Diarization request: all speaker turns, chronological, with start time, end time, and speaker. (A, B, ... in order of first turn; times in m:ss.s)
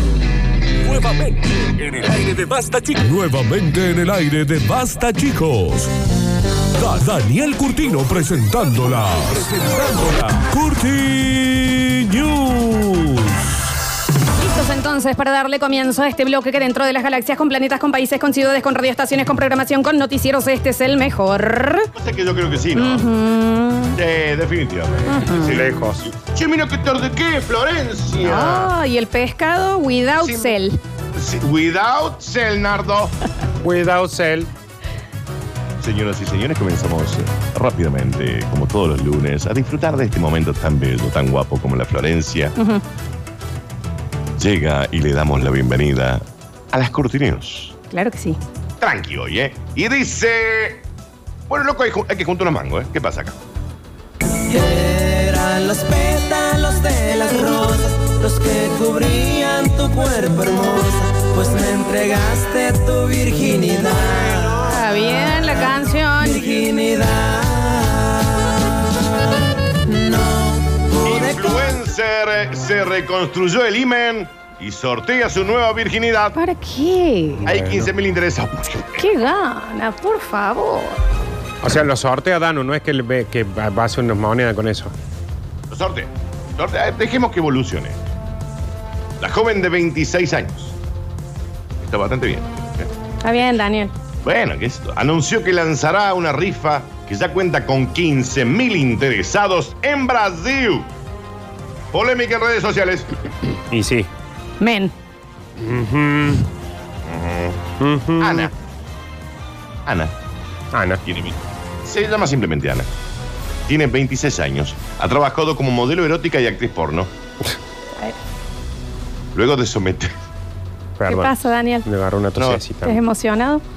0:00.8-0:05.9 A
0:06.8-0:13.3 A
0:14.3-0:21.9 B
0:21.9-0:23.1 C
0:22.7-0:24.0 B
0:23.9-0:28.7 C
0:25.1-0:25.6 B
0:25.4-0:26.0 D
0:28.2-0:30.8 B
0:30.2-0:30.6 C
0:31.2-0:33.1 C
0:33.6-0:34.5 D
0:35.8-0:42.5 C
0:42.6-0:42.8 B
0:44.4-0:47.7 C
0:47.9-0:48.4 B
0:48.8-0:50.8 C
0:51.5-0:53.4 C
0:54.4-1:04.6 E
1:04.6-1:06.7 B
1:06.3-1:08.6 E
1:09.8-1:11.6 E
1:11.0-1:16.4 C
1:16.3-1:17.5 B
1:17.4-1:17.9 D
1:17.4-1:19.1 C
1:19.0-1:21.0 B
1:21.6-1:24.9 D
1:25.7-1:28.0 C
1:29.2-1:30.8 C
1:31.8-1:32.9 C
1:33.2-1:33.9 B
1:34.2-1:40.9 C
1:41.9-1:43.1 C
1:43.7-1:44.1 D
1:44.6-1:44.9 B
1:45.6-1:46.4 D
1:47.1-1:47.6 C
1:47.8-1:48.5 D
1:48.2-1:48.5 C
1:49.8-1:50.1 C
1:50.7-1:51.0 D
1:51.0-1:52.9 C
1:53.7-1:57.1 C
1:59.3-2:00.1 C
2:01.0-2:03.0 D
2:01.1-2:01.8 B
2:02.4-2:02.6 C
2:02.8-2:03.6 B